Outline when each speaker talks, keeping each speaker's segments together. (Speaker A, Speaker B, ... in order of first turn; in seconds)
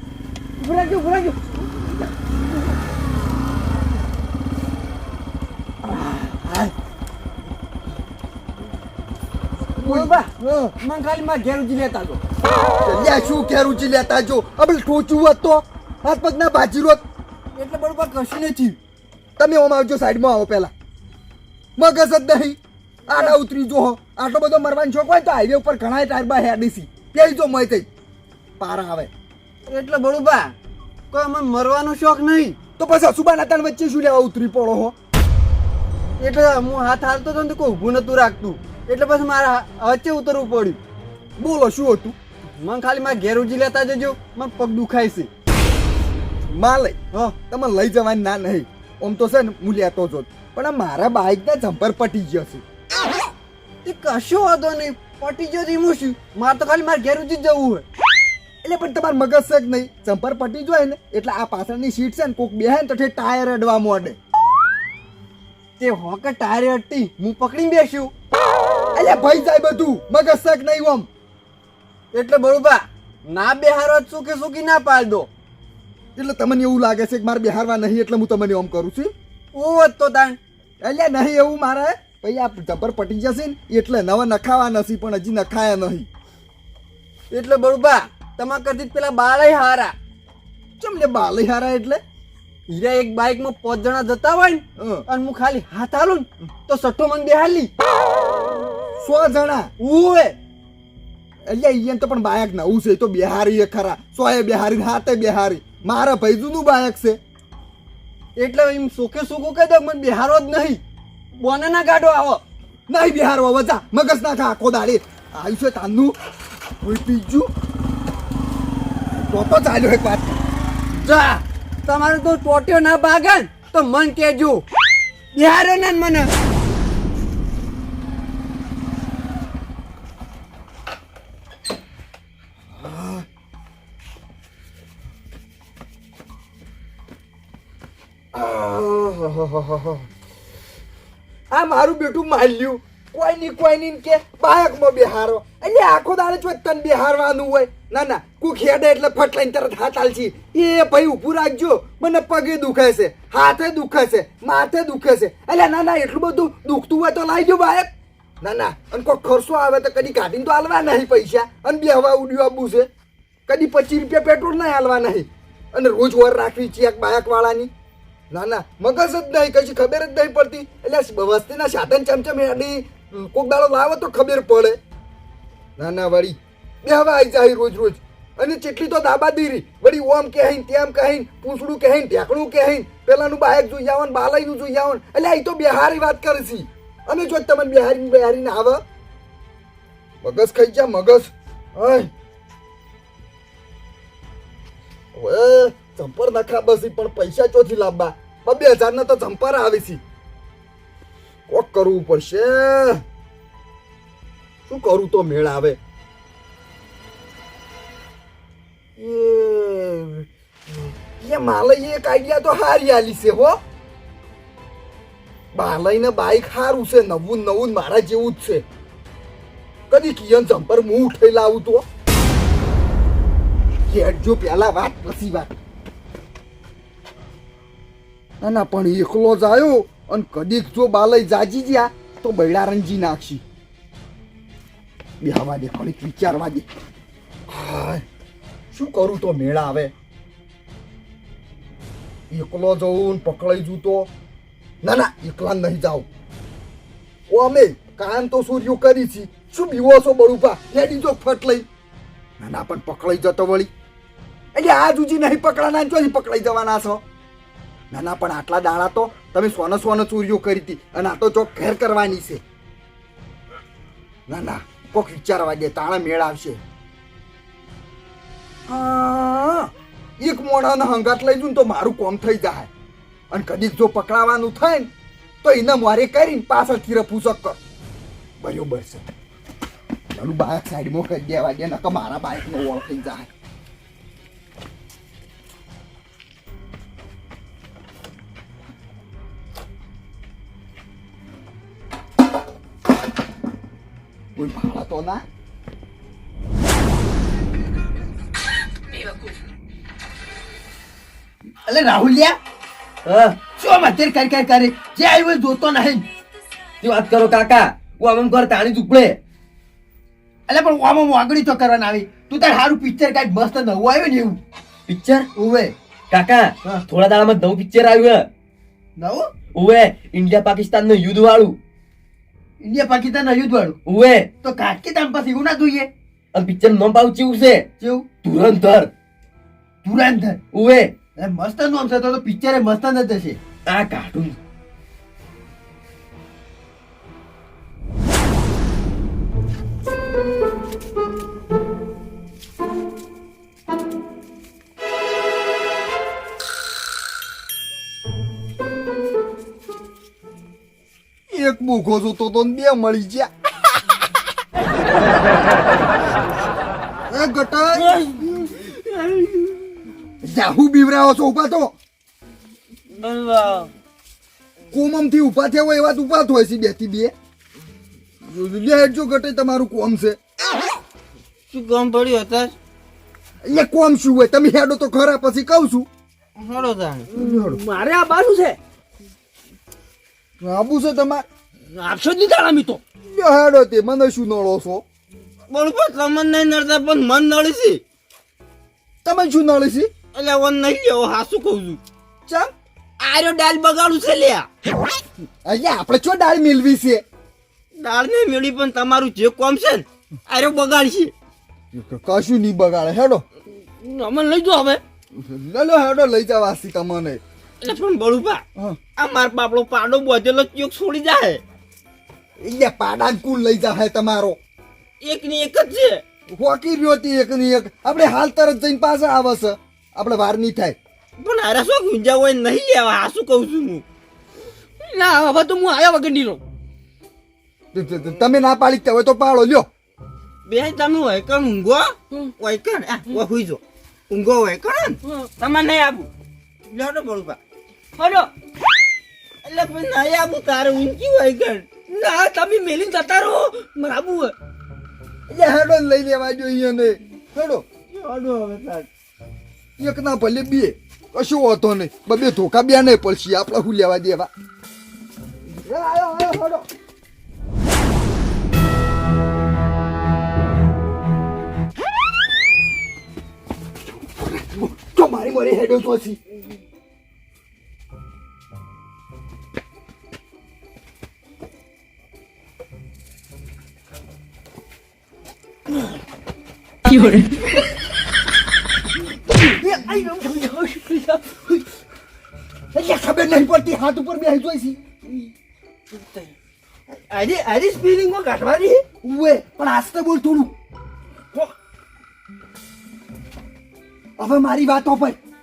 Speaker A: 0.6-1.8, 9.8-12.2, 17.6-18.8, 29.7-30.6, 31.1-32.6, 36.2-40.8, 42.6-45.3, 53.8-57.9, 65.8-68.1, 72.1-75.3, 79.5-80.4, 87.3-90.0, 92.7-97.7, 99.8-100.4, 108.4-110.8, 111.4-112.4, 121.0-124.6, 125.3-126.3, 304.8-305.3, 310.7-313.9, 323.1-323.5, 324.7-325.6, 331.3-333.4, 377.2-378.6, 382.1-382.8, 424.8-426.4, 479.6-481.1
Speaker B: 5.9-6.7, 9.8-10.7, 12.8-17.0, 19.4-20.7, 21.8-27.9, 28.6-29.1, 32.8-35.0, 41.4-42.2, 46.5-52.6, 58.6-64.2, 69.0-71.1, 76.2-79.1, 80.8-86.1, 90.8-92.0, 94.8-95.1, 99.0-99.7, 101.5-107.2, 112.9-116.2, 116.8-117.5, 119.1-120.4, 132.8-133.2, 138.3-140.1, 141.5-162.9, 163.5-167.7, 168.3-174.8, 175.8-188.8, 190.2-192.1, 195.1-200.0, 201.5-203.0, 204.7-205.8, 209.0-213.6, 215.5-218.7, 219.9-221.9, 223.9-225.5, 228.4-233.4, 235.2-236.7, 237.5-238.1, 238.7-239.9, 242.3-244.1, 244.8-246.1, 247.3-251.7, 252.4-253.7, 254.5-257.0, 257.9-262.4, 264.3-266.6, 268.7-272.7, 273.3-274.9, 275.4-277.6, 278.4-279.1, 280.1-283.3, 294.4-295.2, 351.3-353.3, 357.1-357.9, 360.2-361.8, 364.7-367.1, 368.2-370.2, 373.4-375.9, 377.2-377.6, 380.4-381.3, 383.1-384.8, 389.0-389.9, 395.4-397.0, 401.7-403.2, 405.1-407.2, 412.4-414.4, 416.3-420.8, 427.7-429.7, 445.3-447.6, 449.8-454.3, 455.5-456.7, 463.8-466.2, 482.7-484.8, 489.0-490.5, 494.2-495.2
Speaker C: 301.7-302.3, 303.6-306.1, 310.5-314.4, 322.6-323.7, 324.5-325.9, 329.9-330.4, 331.2-333.3
Speaker D: 303.1-303.4, 306.8-309.2, 314.9-315.3, 316.1-318.3, 319.6-321.6, 323.9-324.3, 326.3-327.7, 328.2-328.9, 330.5-330.9, 333.7-334.4
Speaker E: 357.7-359.8, 362.9-363.7, 371.5-372.6, 376.4-377.1, 381.8-382.6, 385.5-387.8, 390.1-391.8, 393.0-394.5, 397.8-401.1, 403.8-404.8, 407.6-408.4, 409.0-411.4, 415.0-416.0, 421.2-423.8, 430.5-436.1, 436.7-437.4, 438.0-438.3, 439.4-444.3, 447.9-448.9, 486.9-488.9